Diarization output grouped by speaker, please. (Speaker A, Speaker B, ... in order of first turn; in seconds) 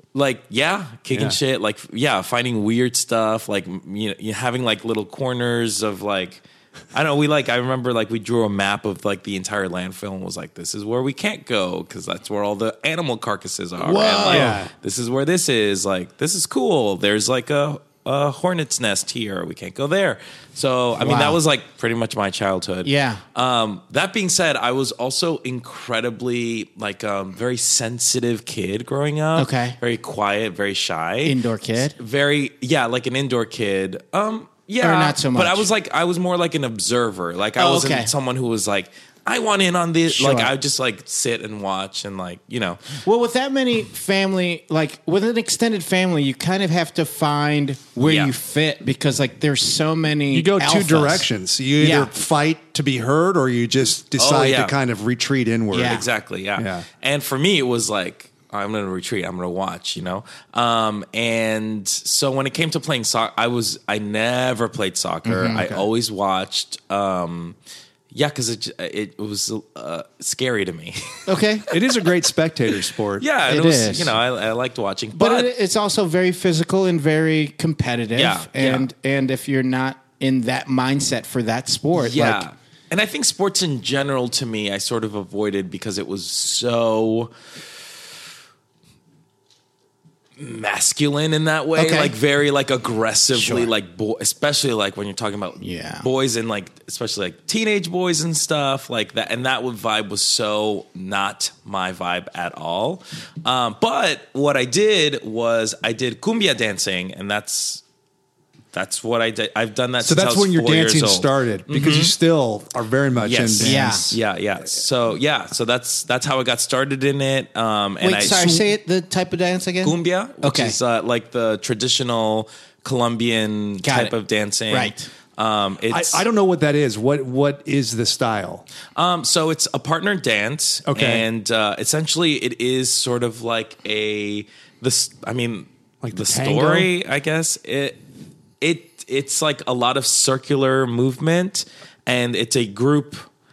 Speaker A: 0.1-31.4, 31.9-42.8, 48.0-48.3, 54.2-54.8, 55.8-67.5, 68.1-71.8, 73.2-75.5, 78.1-78.8, 81.9-87.3, 90.4-107.8, 108.7-112.1, 113.2-118.7, 119.8-126.2, 128.9-138.0, 138.6-143.2
Speaker B: 13.8-14.6, 21.0-21.4, 22.8-23.2, 29.4-29.8, 31.2-32.0, 34.8-35.7, 37.6-38.1, 40.1-40.5, 43.0-51.2, 51.8-52.1, 55.7-56.0, 65.2-65.7, 71.3-71.7, 73.5-74.1, 75.1-82.4, 91.8-92.1, 93.3-93.7, 95.6-96.1, 113.6-114.2, 118.0-120.8, 123.8-124.2, 124.7-125.1
Speaker C: 14.2-14.7, 50.3-56.0, 56.5-56.9, 71.7-73.2, 110.0-114.0, 125.9-128.6, 130.8-131.2, 136.0-136.9